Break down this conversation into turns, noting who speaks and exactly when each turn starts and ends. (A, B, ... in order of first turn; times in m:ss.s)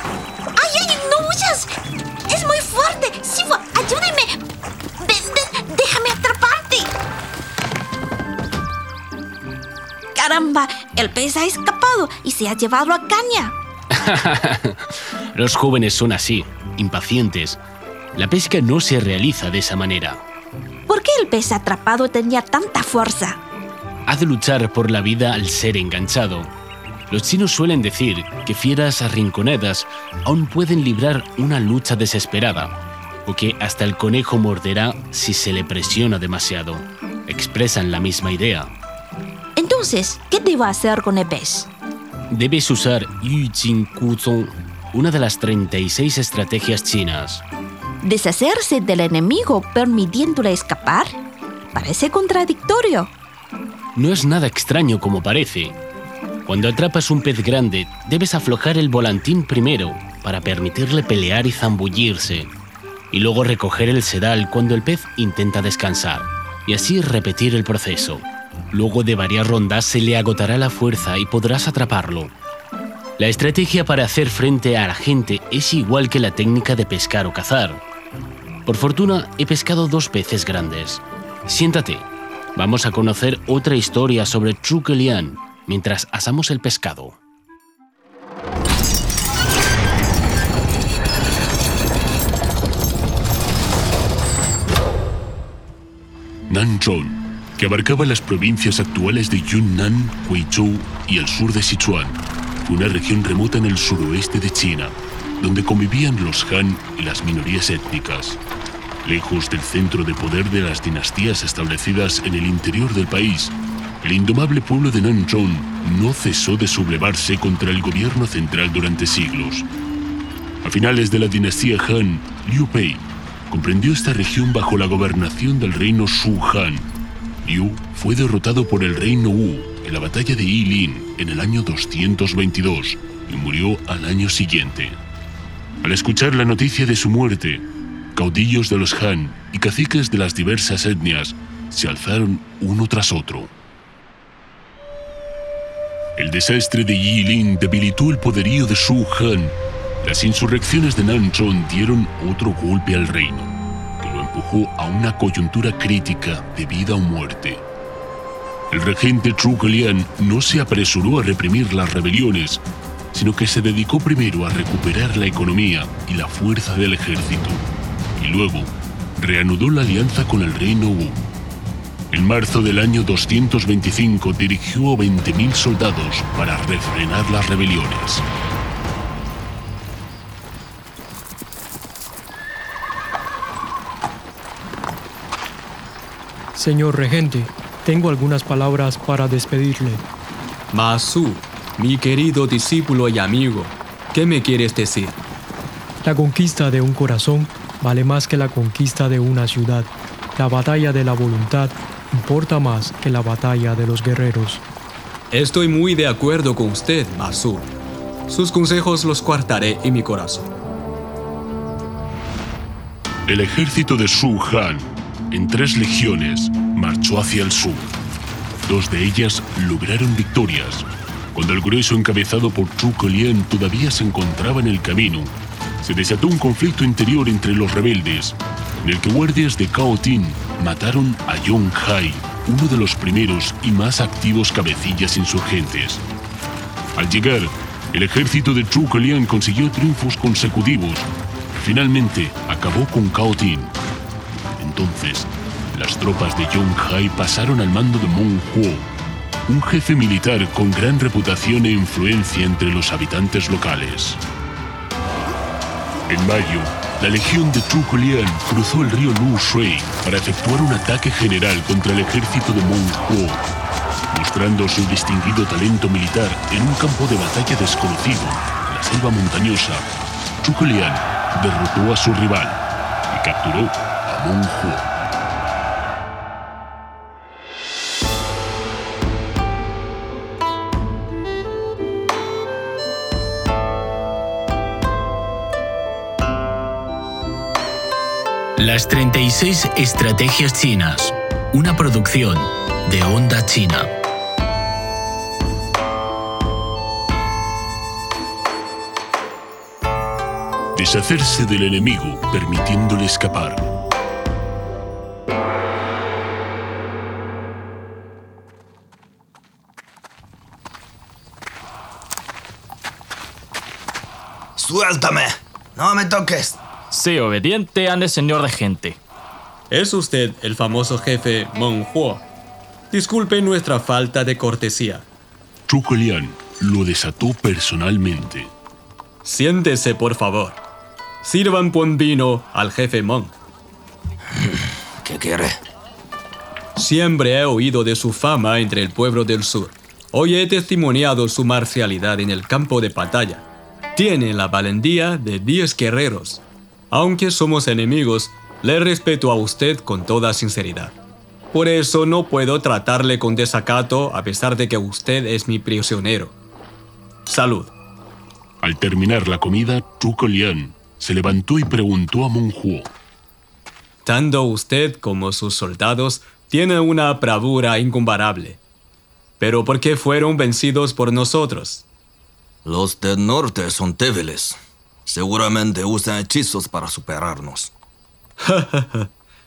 0:00.6-0:01.7 A
0:02.3-0:04.4 A
0:05.0-0:06.9 A
0:10.1-0:13.6 A
0:13.9-0:17.6 B
0:18.2-0:20.2 B
0:20.9-0:23.4 A
0:24.1-0:26.5 B
0:27.1-0:38.7 B
0:39.6-0:41.7 A
0:42.3-0:47.4 B
0:48.0-0:51.2 A
0:51.7-0:53.1 A
0:54.0-0:55.8 B
0:56.4-1:02.5 B
1:03.1-1:12.3 B
1:13.2-1:17.8 B
1:18.6-1:27.2 B
1:36.5-1:48.4 C
1:49.0-1:59.7 C
2:00.6-2:06.9 C
2:07.4-2:15.0 C
2:15.8-2:23.5 C
2:26.2-2:37.6 C
2:38.7-2:42.6 C
2:43.1-2:47.6 C
2:48.2-2:51.2 C
2:52.1-2:58.3 C
3:06.6-3:10.0 D
3:10.7-3:15.2 E
3:16.0-3:24.6 D
3:25.3-3:27.7 E
3:28.3-3:30.5 E
3:33.3-3:38.0 C
3:38.6-3:56.0 C
3:57.0-4:03.7 C
4:04.6-4:08.9 C
4:09.5-4:14.2 C
4:16.1-4:23.5 C
4:24.1-4:29.9 C
4:30.4-4:34.9 C
4:48.6-4:53.9 B
5:00.8-5:03.7 C
5:14.6-5:16.6 F
5:16.9-5:19.0 G
5:19.7-5:22.2 E
5:22.9-5:25.1 E
5:25.7-5:28.5 C
5:29.2-5:30.6 E
5:31.2-5:33.3 E
5:34.4-5:35.6 F
5:36.8-5:51.0 E
5:51.5-5:56.4 E
5:57.3-5:57.7 E
5:58.6-6:02.9 C
6:04.1-6:08.6 E
6:09.4-6:11.9 E
6:12.6-6:17.7 F
6:18.5-6:19.1 E